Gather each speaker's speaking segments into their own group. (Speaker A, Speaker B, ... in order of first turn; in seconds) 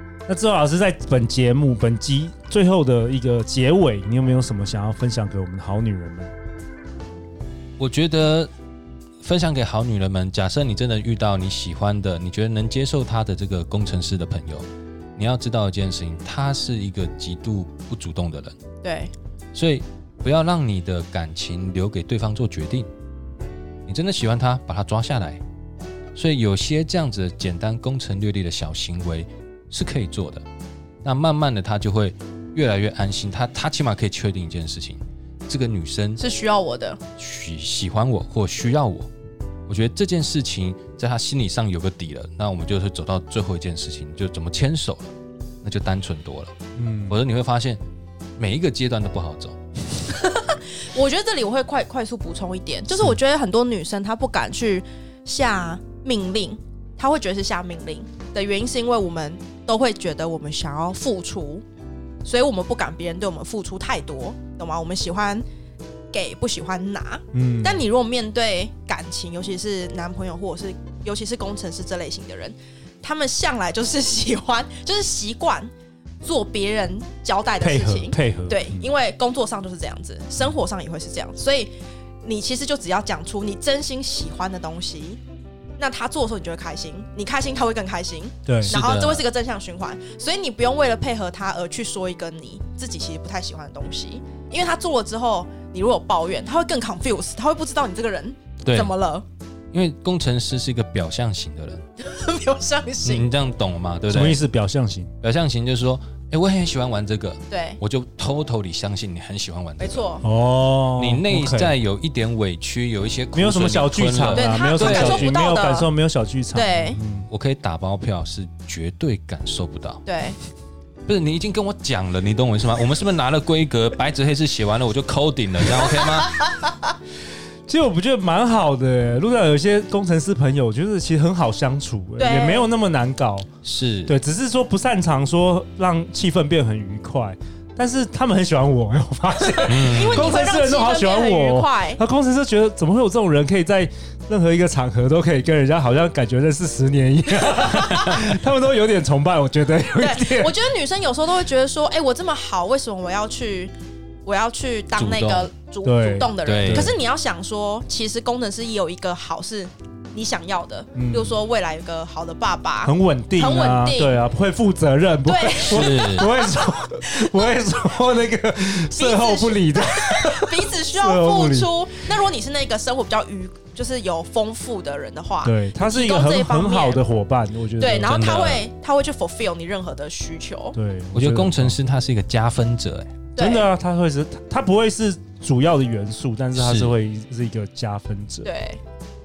Speaker A: 0.3-6.3, 46.8-47.2, 67.3-67.8, 77.6-78.9, 88.5-88.7, 104.1-105.1, 110.2-111.7, 113.3-117.3, 127.7-133.5, 134.1-150.6, 155.8-157.0, 160.9-161.4, 162.8-171.7, 175.4-178.2, 180.8-181.8, 183.4-188.5
Speaker B: 7.8-8.5, 9.2-14.7, 15.2-18.6, 19.5-22.9, 23.9-25.4, 26.1-30.4, 31.0-36.2, 37.2-39.1, 39.7-45.1, 45.6-46.5, 47.1-47.8, 48.4-49.6, 88.6-89.2, 98.6-98.9, 99.7-101.8, 103.0-104.5, 105.2-110.1, 111.0-115.3, 117.3-120.0, 121.1-126.4, 133.6-134.1, 139.7-140.4, 155.0-155.5, 156.4-157.0, 165.7-166.3, 178.1-178.7, 181.1-183.2, 186.6-186.9
Speaker C: 18.8-19.1, 36.2-37.0, 50.1-61.6, 62.2-65.5, 66.1-85.2, 85.8-99.3, 102.0-103.3, 107.5-107.8, 109.8-110.3, 114.3-115.9, 116.5-117.0, 120.0-120.4, 132.2-132.7, 139.8-142.0, 149.9-153.7, 154.2-164.2, 165.2-166.4, 168.8-177.0, 177.8-180.8, 183.3-183.7, 188.4-188.8